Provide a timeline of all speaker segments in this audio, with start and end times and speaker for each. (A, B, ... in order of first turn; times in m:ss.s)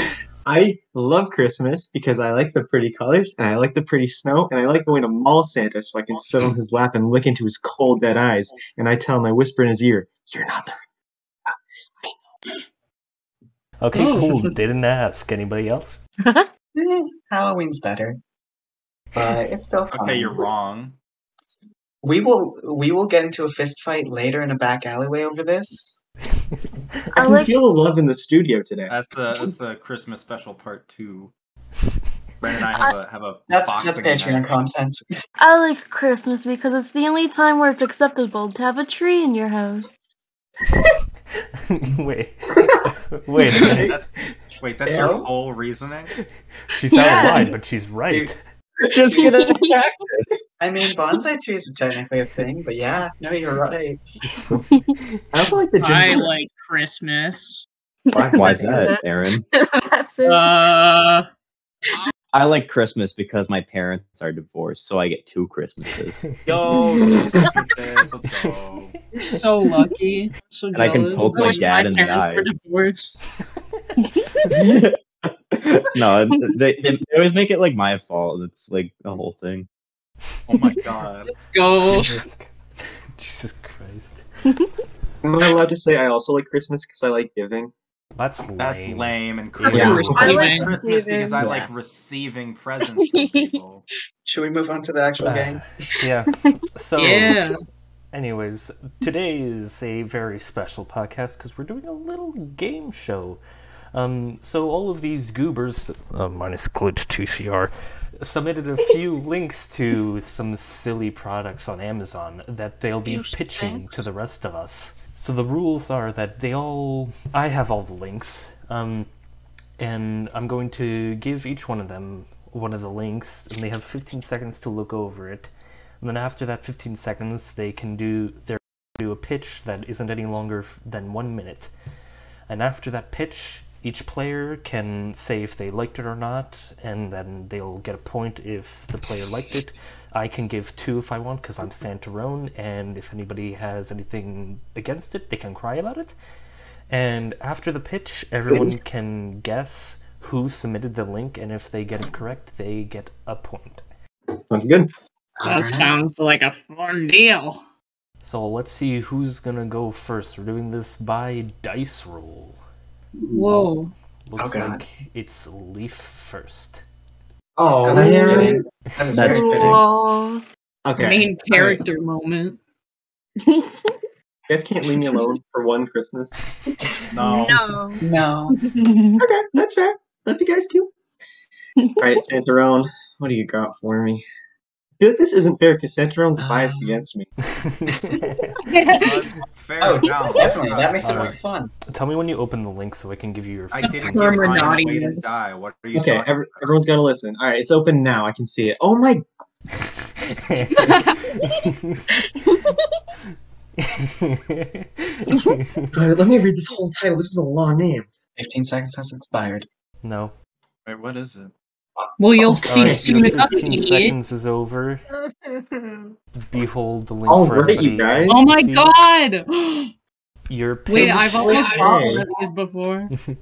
0:00.4-0:10.8 A
0:13.8-0:16.0 B
0:13.9-0:14.5 C
0:16.7-0:18.2 C
0:19.1-0:20.4 C
0:19.9-0:21.0 D
0:22.0-0:26.0 C
0:27.1-0:28.9 A
0:27.2-0:27.5 E
0:28.9-0:31.3 D
0:32.4-0:34.6 D
0:33.5-0:35.0 C
0:35.4-0:39.9 E
0:41.7-0:44.0 B
0:43.6-0:44.0 A
0:43.8-0:46.1 D
0:44.8-0:45.2 A
0:44.9-0:45.2 C
0:46.7-0:48.4 B
0:46.9-0:47.5 E
0:46.9-0:47.5 C
0:48.8-0:50.3 F
0:49.1-0:49.8 E
0:50.6-0:54.0 C
0:55.3-0:56.3 A
0:55.8-0:57.6 G
0:58.1-1:00.7 E
0:58.1-0:59.0 A
0:58.2-0:59.4 F
1:00.2-1:01.2 G
1:02.3-1:06.3 F
1:06.4-1:09.0 D
1:09.1-1:13.2 G
1:10.7-1:12.5 F
1:14.0-1:14.6 E
1:14.5-1:15.0 F
1:15.5-1:19.7 F
1:20.5-1:21.3 D
1:21.3-1:22.2 G
1:21.8-1:24.2 B
1:25.2-1:27.7 A
1:28.2-1:30.4 B
1:28.6-1:33.8 D
1:29.7-1:30.2 A
1:29.7-1:30.8 G
1:30.2-1:31.4 E
1:30.2-1:30.7 C
1:31.4-1:31.7 C
1:33.0-1:33.5 E
1:34.2-1:35.6 C
1:35.2-1:37.4 B
1:37.0-1:37.6 G
1:38.1-1:43.4 B
1:43.9-1:59.1 B
1:59.8-2:11.7 B
2:12.5-2:26.1 B
2:26.9-2:33.8 B
2:34.5-2:34.9 A
2:35.4-2:36.0 C
2:35.4-2:37.6 G
2:38.2-2:42.6 B
2:43.3-2:43.9 G
2:44.3-2:46.8 B
2:44.4-2:44.8 C
2:47.6-2:48.6 A
2:47.8-2:49.8 C
2:47.9-2:48.6 E
2:49.1-2:49.7 F
2:49.3-2:50.4 E
2:50.8-2:51.8 A
2:51.0-2:52.6 G
2:53.4-2:54.0 E
2:54.5-2:56.4 A
2:57.1-2:57.6 D
2:57.1-2:58.0 E
2:58.0-2:58.6 C
2:58.6-2:59.2 E
2:59.2-3:00.9 A
3:01.8-3:02.1 E
3:02.0-3:04.2 A
3:05.0-3:07.3 A
3:06.4-3:07.0 C
3:07.5-3:08.6 B
3:08.7-3:09.2 G
3:08.9-3:11.4 D
3:09.8-3:11.7 C
3:11.0-3:14.8 B
3:13.7-3:16.6 D
3:13.8-3:15.2 G
3:15.9-3:19.2 A
3:20.2-3:22.0 B
3:20.8-3:21.3 G
3:22.2-3:22.8 E
3:23.8-3:25.9 B
3:25.9-3:28.1 A
3:28.4-3:29.6 C
3:30.0-3:30.3 B
3:30.8-3:31.5 D
3:32.2-3:34.2 G
3:32.4-3:33.4 A
3:32.6-3:35.0 B
3:35.1-3:36.1 D
3:36.4-3:38.9 B
3:37.3-3:38.4 A
3:38.3-3:39.9 G
3:40.5-3:41.6 B
3:40.9-3:43.1 G
3:41.0-3:42.2 A